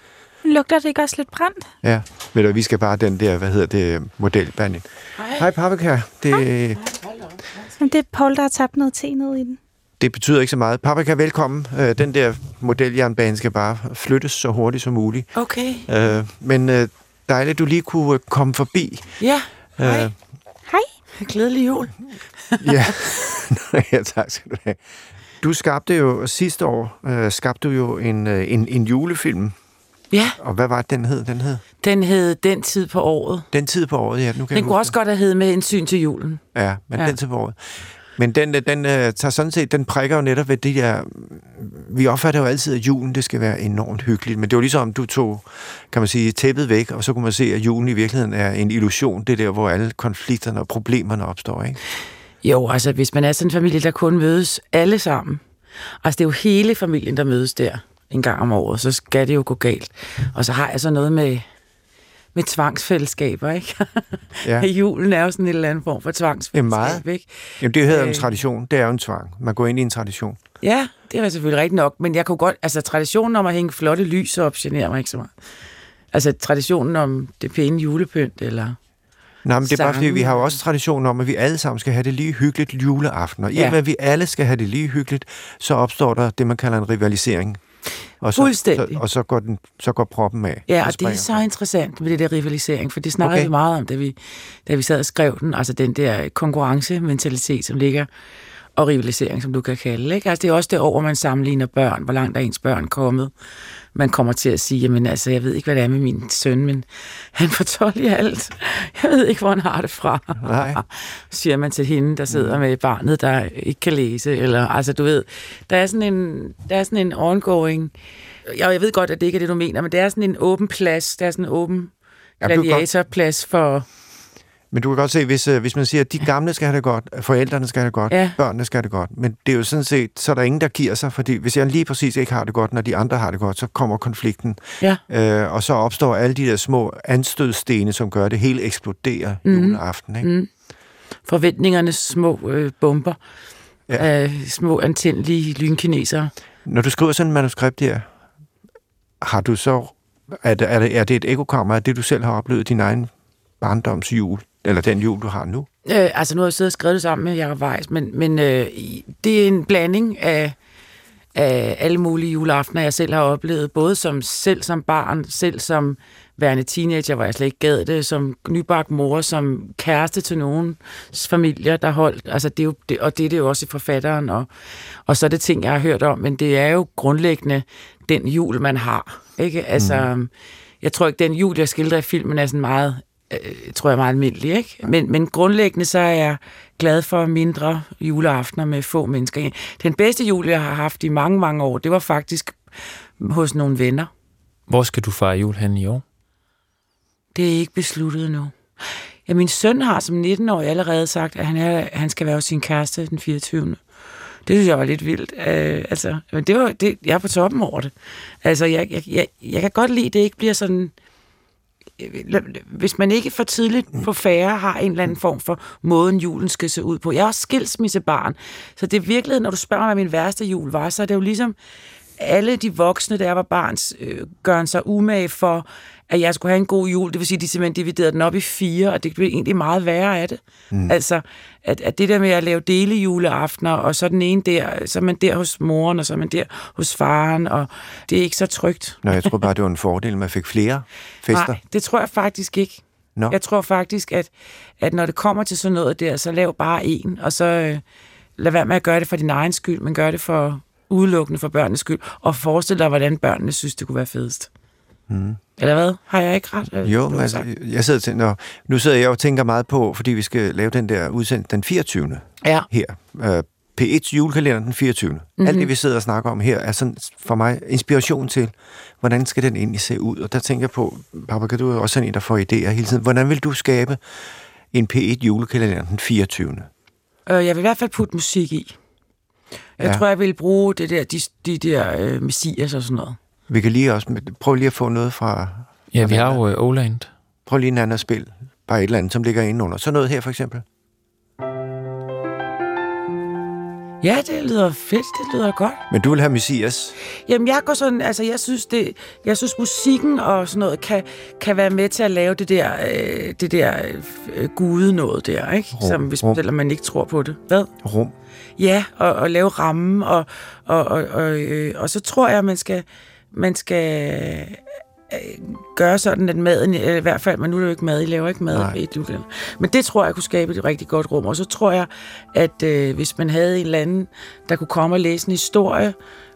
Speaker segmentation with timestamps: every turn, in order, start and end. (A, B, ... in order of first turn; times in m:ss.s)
0:00.4-0:01.7 A
0:01.8-0:06.8 B
0:05.2-0:05.5 C
0:06.8-0:07.8 C
0:07.8-0:09.6 A
0:10.0-0:19.2 B
0:15.4-0:15.9 C
0:19.2-0:20.1 C
0:19.8-0:20.2 B
0:21.2-0:22.9 C
0:22.6-0:24.8 B
0:25.4-0:29.6 B
0:30.1-0:30.4 C
0:30.4-0:31.6 B
0:31.8-0:33.5 C
0:33.5-0:34.9 B
0:34.5-0:36.4 C
0:36.5-0:51.8 B
0:52.4-0:55.4 C
0:56.0-1:01.5 C
1:02.3-1:08.3 C
1:06.5-1:07.0 B
1:07.6-1:10.4 B
1:10.6-1:15.3 C
1:16.1-1:18.8 C
1:19.4-1:27.6 B
1:19.6-1:20.5 C
1:23.5-1:23.8 C
1:28.2-1:31.4 B
1:28.4-1:29.0 C
1:30.7-1:38.1 C
1:33.2-1:33.5 B
1:38.8-1:43.3 C
1:44.0-1:57.9 C
1:50.4-1:50.8 B
1:52.3-1:52.6 B
1:58.5-2:01.9 C
2:02.4-2:02.9 B
2:02.4-2:03.9 C
2:04.7-2:20.3 B
2:08.1-2:08.4 C
2:19.4-2:20.5 C
2:21.2-2:23.2 C
2:24.0-2:26.3 C
2:26.6-2:28.1 B
2:29.2-2:35.7 B
2:35.8-2:40.6 C
2:41.3-2:54.5 C
2:55.1-3:00.3 C
2:59.8-3:00.1 B
3:00.8-3:14.1 C
3:14.7-3:16.0 D
3:17.3-3:18.6 C
3:19.3-3:23.8 C
3:24.5-3:30.9 C
3:32.0-3:41.6 C
3:42.2-3:59.3 C
3:59.0-4:01.6 B
4:01.3-4:07.8 C
4:08.4-4:14.5 C
4:15.1-4:15.4 B
4:15.6-4:17.5 C
4:16.8-4:34.0 B
4:22.4-4:22.7 C
4:25.4-4:25.7 C
4:34.7-4:36.7 B
4:37.3-4:38.8 C
4:39.8-4:43.2 C
4:43.5-4:46.4 B
4:45.9-4:47.1 D
4:47.5-4:50.6 B
4:54.0-4:55.8 C
4:55.9-4:57.0 B
4:57.3-5:07.7 C
5:05.7-5:06.4 B
5:07.8-5:08.2 B
5:08.6-5:26.0 C
5:18.5-5:18.8 B